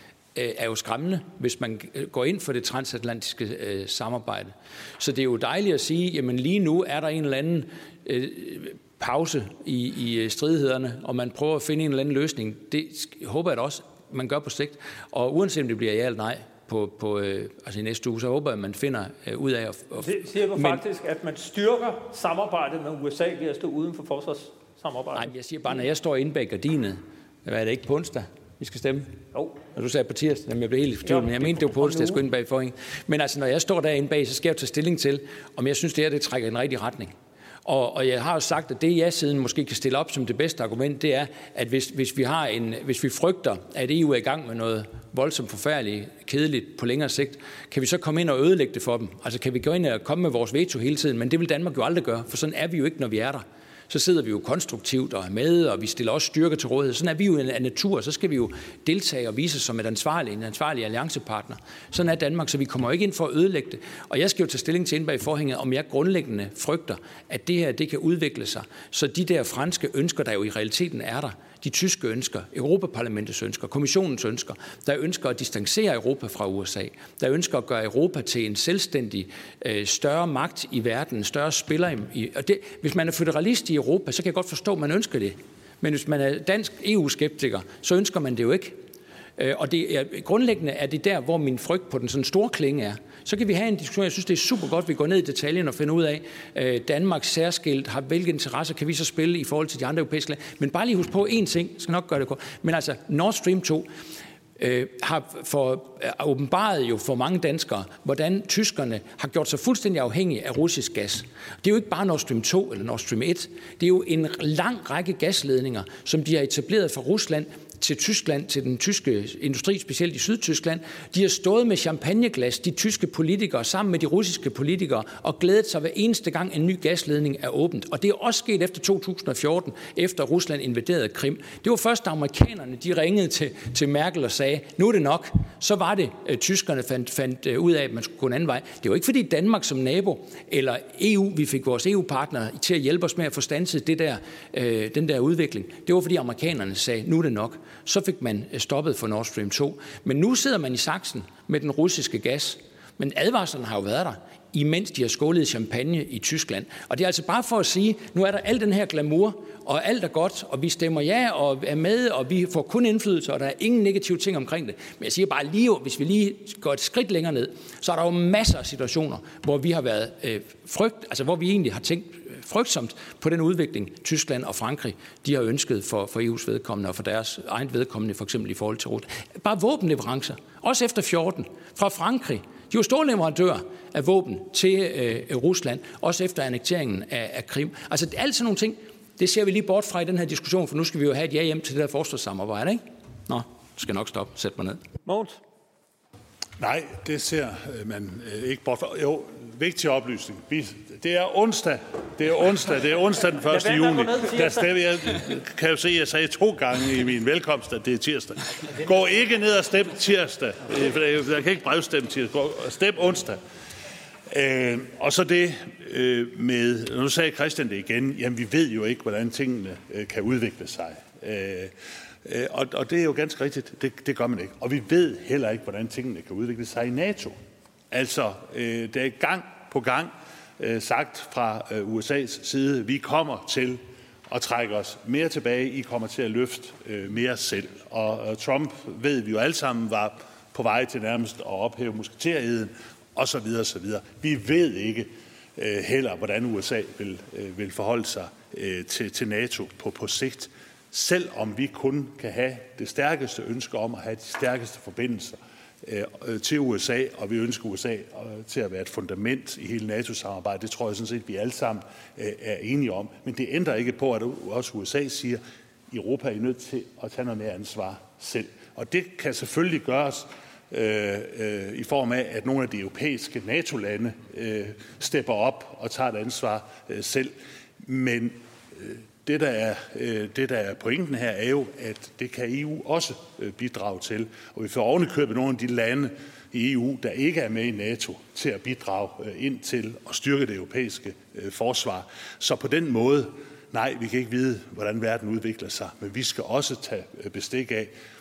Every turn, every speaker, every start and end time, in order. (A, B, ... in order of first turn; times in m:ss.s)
0:00.3-0:20.8 A
0:20.0-0:25.3 B
0:25.1-0:29.2 A
0:29.3-0:29.6 B
0:29.7-1:28.8 A
0:31.0-0:32.2 B
1:29.4-1:43.9 A
1:44.6-3:14.8 A
3:15.0-3:15.4 B
3:16.6-3:33.4 C
3:23.5-3:24.8 B
3:34.3-3:47.3 C
3:47.9-4:57.9 C